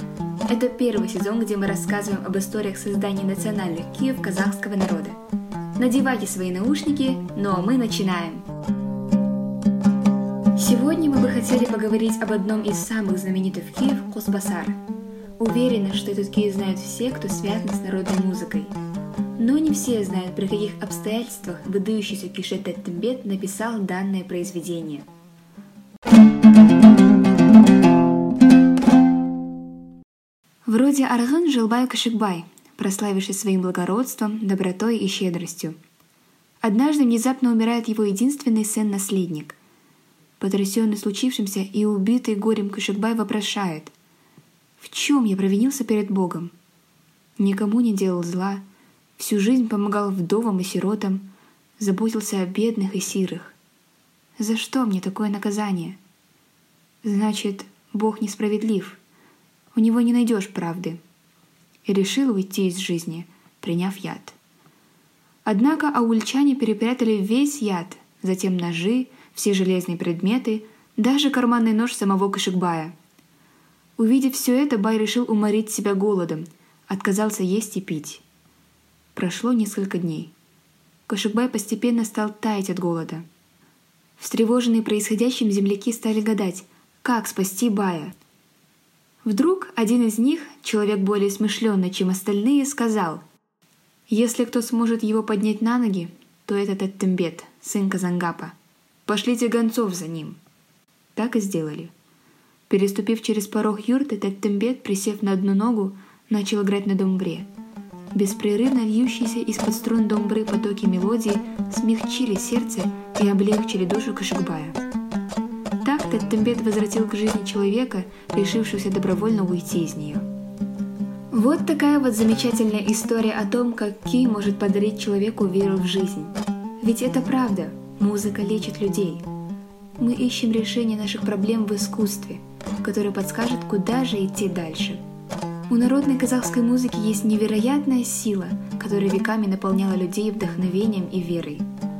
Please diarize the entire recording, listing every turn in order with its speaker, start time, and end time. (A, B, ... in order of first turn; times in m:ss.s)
0:00.4-0:05.2 A
0:05.8-0:08.5 A
0:10.6-0:14.8 A
0:15.4-0:18.7 A
0:19.4-0:25.0 A
0:30.6-0:35.8 A
0:36.6-0:39.6 A
0:40.4-0:43.9 A
0:44.8-0:46.5 A
0:47.4-0:48.6 A
0:49.2-0:53.6 A
0:54.4-0:56.0 A
0:57.0-0:59.0 A
0:59.7-1:01.0 A
1:01.8-1:04.3 A
1:05.4-1:12.9 A
1:14.0-1:18.2 A
1:19.1-1:20.3 A
1:21.1-1:23.2 A
1:24.2-1:28.2 A
1:29.2-1:33.2 A
1:34.1-1:38.5 A
1:39.0-1:40.4 A
1:41.1-1:41.9 A
1:42.7-1:47.5 A
1:48.1-1:54.8 A
1:55.8-2:00.3 A
2:01.3-2:09.2 A
2:10.0-2:15.0 A
2:15.7-2:21.7 A